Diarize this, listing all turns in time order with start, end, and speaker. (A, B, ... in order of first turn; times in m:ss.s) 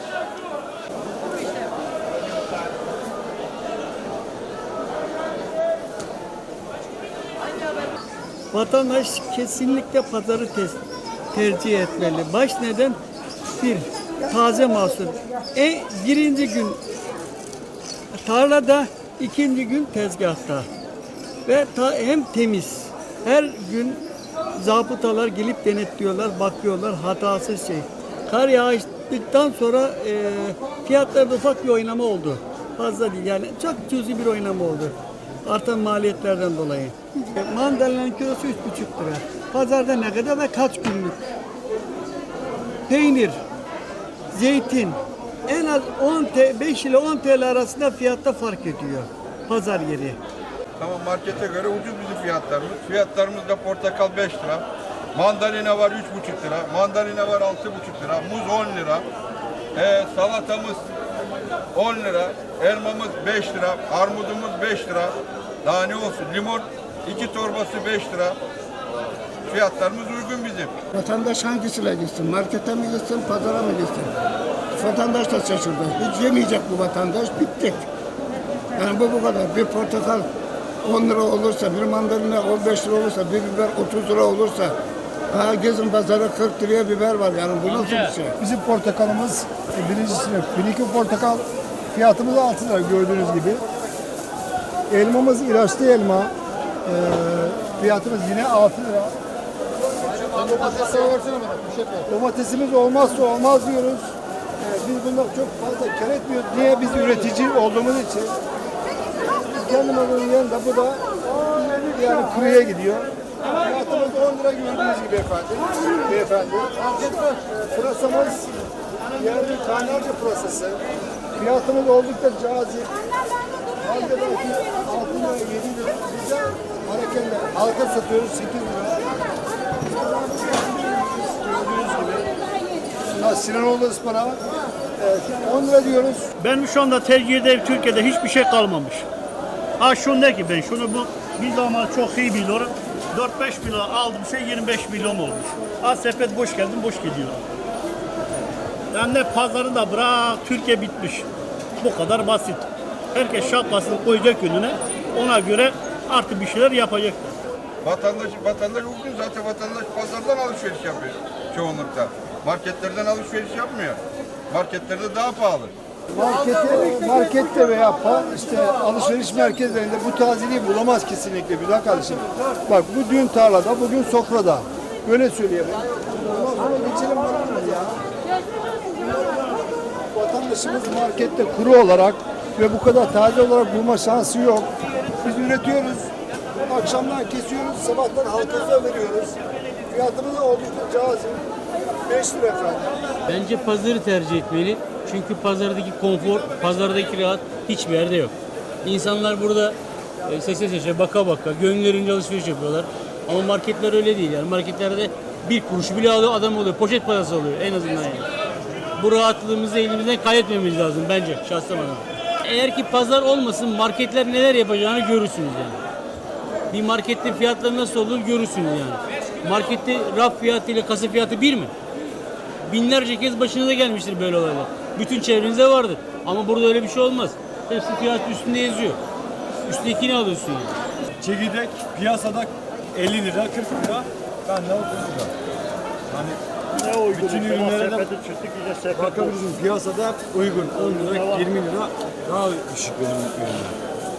0:08.5-0:10.8 A
0:11.3-0:13.0 A
0:13.6-0:16.8 A
0:18.2-0:20.7 A
0:21.5-0:24.0 A
0:24.6-0:41.2 A
0:42.9-0:43.4 A
0:44.3-0:50.2 A
0:50.8-0:59.1 B
0:59.8-1:00.8 B
1:01.7-1:08.4 B
1:09.5-1:10.7 B
1:10.9-1:14.1 C
1:14.7-1:17.9 C
1:18.8-1:20.3 C
1:20.8-1:24.8 C
1:25.3-1:28.4 C
1:27.7-1:28.1 D
1:28.4-1:33.6 E
1:34.9-1:36.3 E
1:36.9-1:39.2 E
1:40.3-1:41.5 E
1:42.0-1:48.4 E
1:49.4-1:58.5 E
1:59.1-2:00.8 E
2:01.4-2:02.9 E
2:03.8-2:09.2 E
2:10.2-2:12.3 E
2:13.1-2:14.4 E
2:15.0-2:16.3 E
2:16.4-2:19.1 F
2:19.8-2:27.4 F
2:28.9-2:31.3 F
2:31.8-2:37.4 F
2:37.8-2:45.7 B
2:46.1-2:58.0 E
3:00.1-3:06.1 E
3:06.6-3:11.4 E
3:12.0-3:13.0 E
3:13.3-3:18.3 D
3:18.8-3:28.3 D
3:29.0-3:35.8 D
3:36.7-3:41.7 D
3:42.7-3:49.0 D
3:49.7-3:50.7 D
3:51.2-3:55.3 G
3:56.1-3:56.4 G
3:56.8-3:59.4 F
3:57.1-3:58.1 G
3:58.9-4:03.8 G
4:00.8-4:01.5 F